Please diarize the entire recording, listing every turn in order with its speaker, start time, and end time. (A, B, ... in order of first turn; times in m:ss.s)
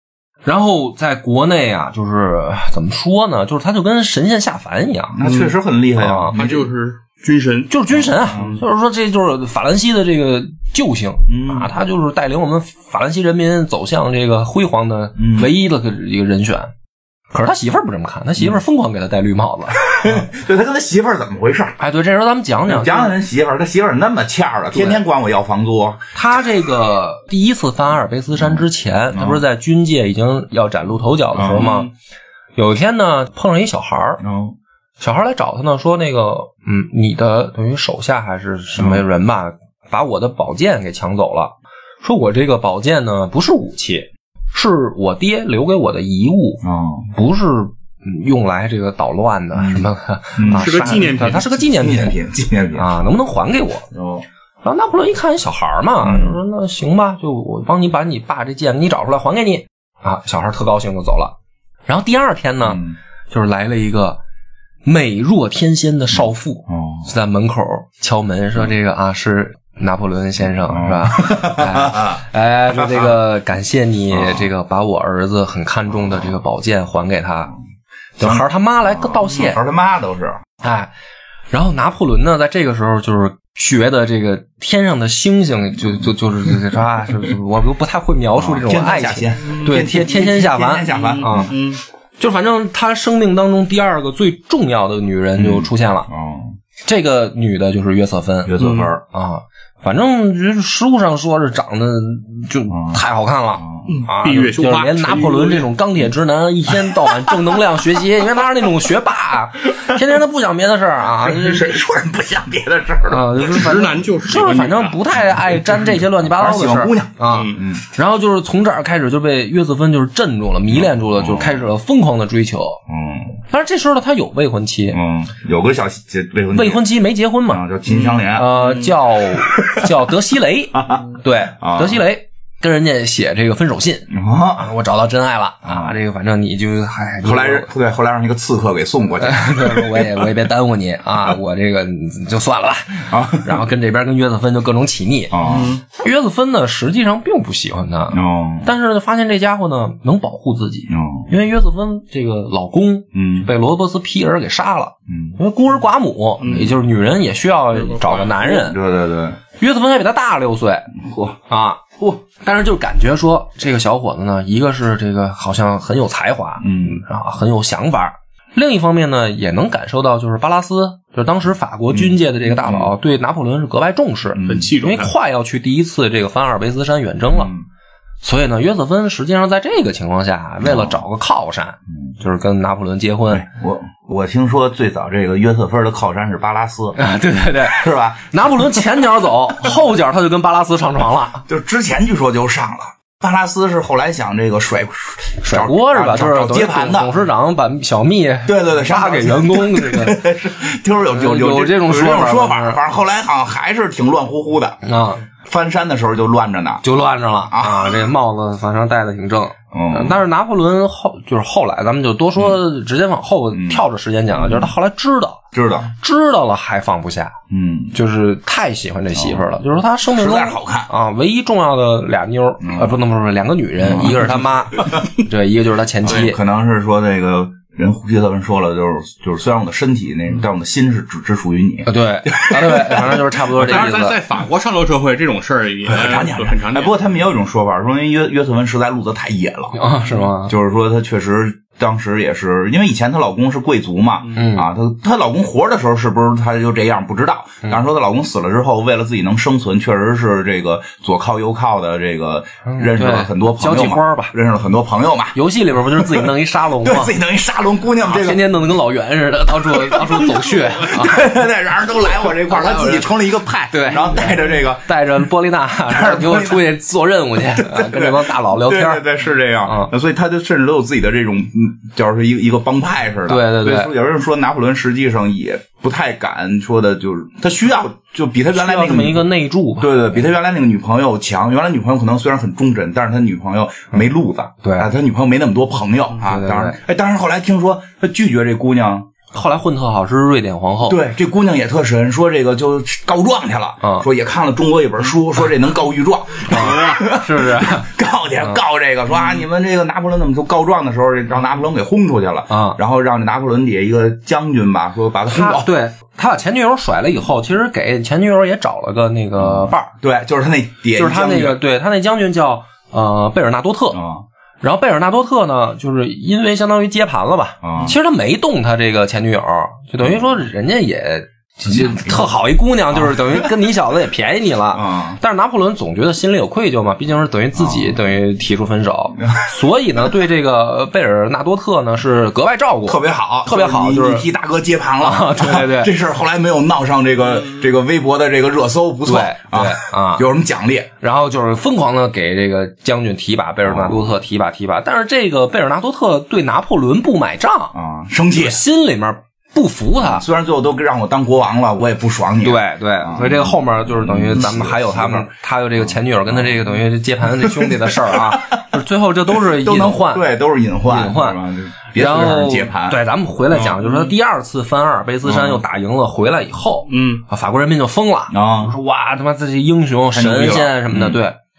0:00.4-0:05.2 A
0:05.1-0:06.7 B
0:05.2-0:05.6 C
0:06.0-0:06.4 A
0:06.3-0:07.7 C
0:07.7-0:16.7 A
0:07.9-0:08.6 B
0:08.2-0:08.6 C
0:11.3-0:11.7 B
0:15.2-0:15.5 B
0:17.3-0:20.1 A
0:19.8-0:21.8 B
0:21.8-0:23.2 A
0:22.7-0:26.0 B
0:24.7-0:25.0 A
0:26.1-0:31.9 A
0:28.4-0:29.4 B
0:31.3-0:31.8 B
0:31.6-0:31.9 C
0:32.6-0:34.2 A
0:34.2-0:34.6 B
0:35.0-0:52.2 A
0:38.8-0:39.0 B
0:46.6-0:47.1 B
0:49.6-0:49.8 B
0:50.4-0:53.0 B
0:50.4-0:51.5 C
0:52.7-0:53.9 A
0:53.9-0:54.2 B
0:54.6-1:01.3 A
0:56.0-0:56.4 B
1:01.8-1:04.2 A
1:02.6-1:03.0 B
1:04.8-1:17.5 A
1:06.7-1:07.1 B
1:10.7-1:13.2 B
1:14.1-1:14.5 B
1:15.9-1:16.3 B
1:18.2-1:19.6 A
1:18.2-1:20.4 B
1:20.6-1:20.9 A
1:21.5-1:31.5 A
1:28.3-1:31.5 B
1:29.4-1:29.7 C
1:30.9-1:31.8 C
1:32.2-1:36.1 A
1:35.4-1:36.6 B
1:36.8-1:51.7 A
1:38.4-1:39.0 B
1:38.6-1:38.9 C
1:42.7-1:43.0 B
1:43.6-1:44.0 B
1:43.9-1:45.7 C
1:46.7-1:47.6 B
1:51.2-1:53.4 B
1:53.1-2:02.8 A
1:53.4-1:55.0 C
1:56.2-1:57.8 B
1:57.3-1:57.6 C
2:00.7-2:01.7 B
2:02.9-2:03.4 B
2:03.5-2:05.0 A
2:04.9-2:06.8 B
2:06.5-2:07.6 A
2:07.5-2:08.6 B
2:08.3-2:17.7 A
2:08.5-2:08.9 C
2:09.2-2:09.8 B
2:10.7-2:11.0 B
2:11.6-2:12.0 B
2:14.1-2:14.7 B
2:15.6-2:15.9 B
2:17.2-2:20.3 B
2:19.2-2:25.4 A
2:23.1-2:23.6 B
2:25.3-2:25.8 B
2:25.4-2:25.8 C
2:25.9-2:38.8 A
2:28.1-2:28.7 B
2:30.9-2:31.3 B
2:33.1-2:33.5 B
2:35.1-2:35.4 B
2:36.4-2:36.7 C
2:37.7-2:38.4 C
2:38.2-2:39.4 B
2:39.6-2:57.5 A
2:46.6-2:47.0 B
2:51.9-2:52.9 B
2:54.3-2:54.7 B
2:54.5-2:55.1 C
2:57.3-2:57.6 B
2:58.2-3:03.4 A
3:00.6-3:01.0 B
3:03.3-3:07.0 B
3:06.9-3:11.4 A
3:07.6-3:08.8 B
3:11.5-3:17.1 B
3:15.4-3:20.2 A
3:18.4-3:24.8 B
3:21.1-3:22.8 A
3:24.8-3:25.2 A
3:25.4-3:26.8 B
3:26.8-3:35.4 A
3:27.5-3:28.1 B
3:29.7-3:30.2 B
3:33.5-3:34.7 B
3:35.5-3:35.9 B
3:35.9-3:37.3 A
3:37.5-3:37.9 B
3:37.9-3:46.4 A
3:39.1-3:39.4 B
3:40.1-3:40.9 B
3:42.6-3:43.0 B
3:43.8-3:45.0 B
3:46.0-3:53.9 B
3:51.8-3:54.2 A
3:53.6-3:57.0 C
3:55.8-3:59.8 B
3:59.7-4:00.5 A
4:00.4-4:15.4 B
4:04.3-4:04.7 A
4:12.6-4:14.3 A
4:15.3-4:17.1 A
4:16.0-4:18.4 B
4:18.0-4:21.3 A
4:19.7-4:25.0 B
4:21.9-4:23.1 A
4:23.7-4:29.0 A
4:25.9-4:26.7 B
4:27.5-4:39.2 B
4:29.6-4:29.9 A
4:33.3-4:33.9 A
4:38.5-4:40.2 A
4:39.8-4:49.0 B
4:44.6-4:44.9 A
4:46.2-4:46.8 A
4:49.3-4:51.0 A
4:50.9-5:05.7 B
4:53.8-4:54.1 A
4:56.4-4:57.9 A
5:02.5-5:02.8 A
5:05.3-5:09.9 A
5:09.4-5:11.6 B
5:10.9-5:14.0 A
5:13.9-5:14.2 B
5:14.6-5:34.3 A
5:17.6-5:17.9 B
5:21.6-5:22.3 B
5:22.9-5:23.5 B
5:24.7-5:25.2 B
5:27.6-5:28.0 B
5:32.8-5:40.9 B
5:35.0-5:35.9 A
5:39.0-5:40.2 A
5:41.0-5:47.7 A
5:43.6-5:44.2 B
5:47.7-5:48.6 B
5:48.3-5:50.2 A
5:50.0-5:56.7 B
5:52.4-6:00.2 A
5:57.4-5:58.6 B
5:59.6-6:03.0 B
6:00.8-6:01.4 A
6:01.9-6:11.4 A
6:03.5-6:03.8 B
6:03.8-6:04.1 C
6:05.2-6:05.6 B
6:06.9-6:07.2 C
6:08.3-6:08.7 B
6:10.1-6:11.2 B